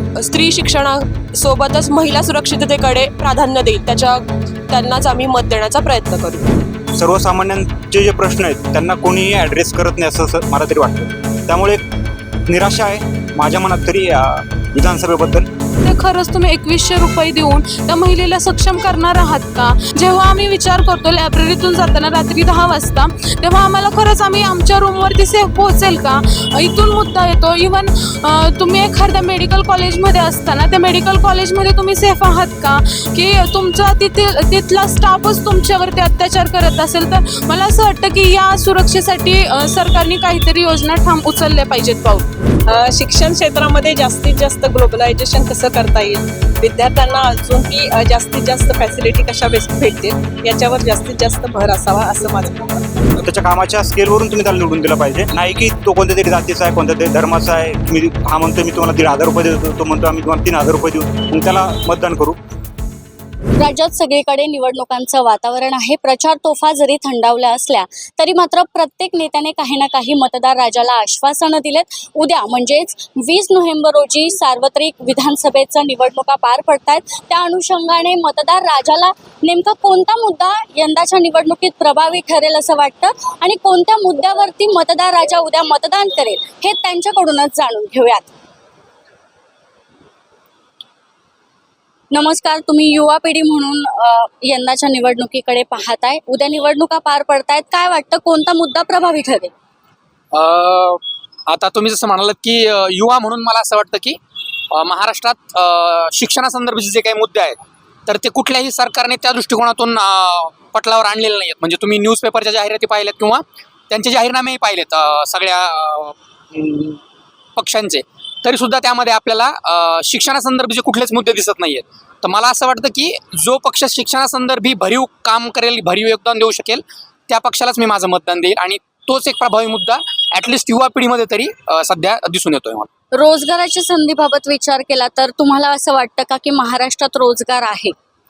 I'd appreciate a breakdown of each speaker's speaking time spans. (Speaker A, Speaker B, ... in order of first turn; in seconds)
Speaker A: 0.2-6.5
Speaker B: 7.0-11.8, 12.5-15.5, 53.2-62.4
Speaker C: 15.8-42.3
Speaker D: 42.7-52.9
Speaker E: 63.6-88.3, 92.1-99.5, 133.1-137.9
Speaker F: 100.3-104.2, 104.7-117.0, 117.6-132.9